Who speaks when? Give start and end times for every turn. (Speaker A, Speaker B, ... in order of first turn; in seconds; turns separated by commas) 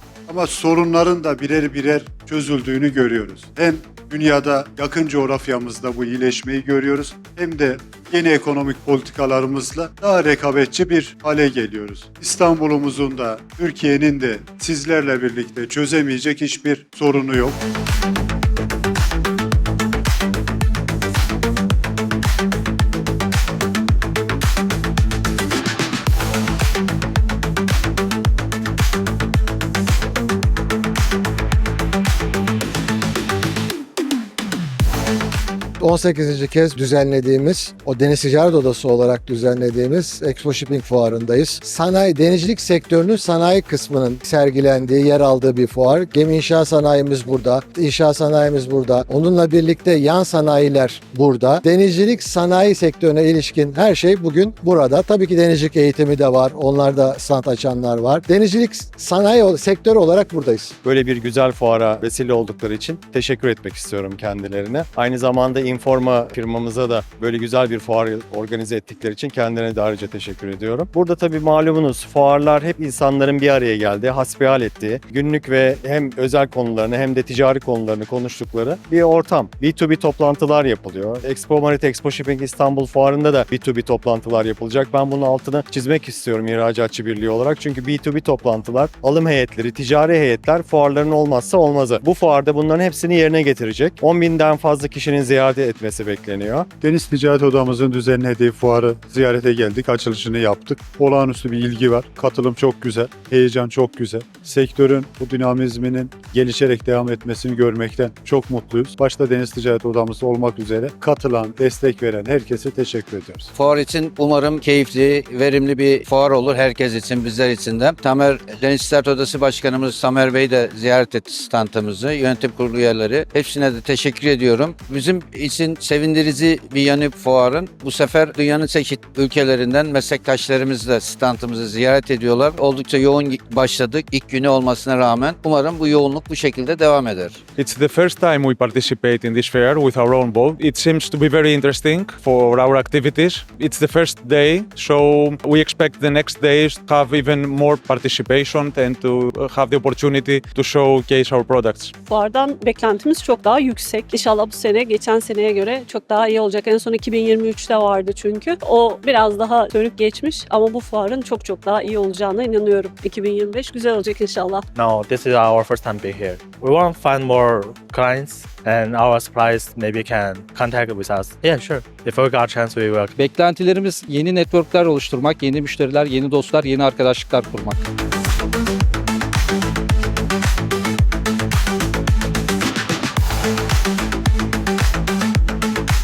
Speaker A: 0.3-17.6, Speaker B: 35.8-60.7, Speaker C: 60.8-96.7, Speaker A: 96.8-113.5, Speaker D: 113.5-137.4, Speaker E: 137.6-151.9, Speaker F: 152.1-164.7, Speaker G: 164.7-173.1, Speaker H: 173.2-177.8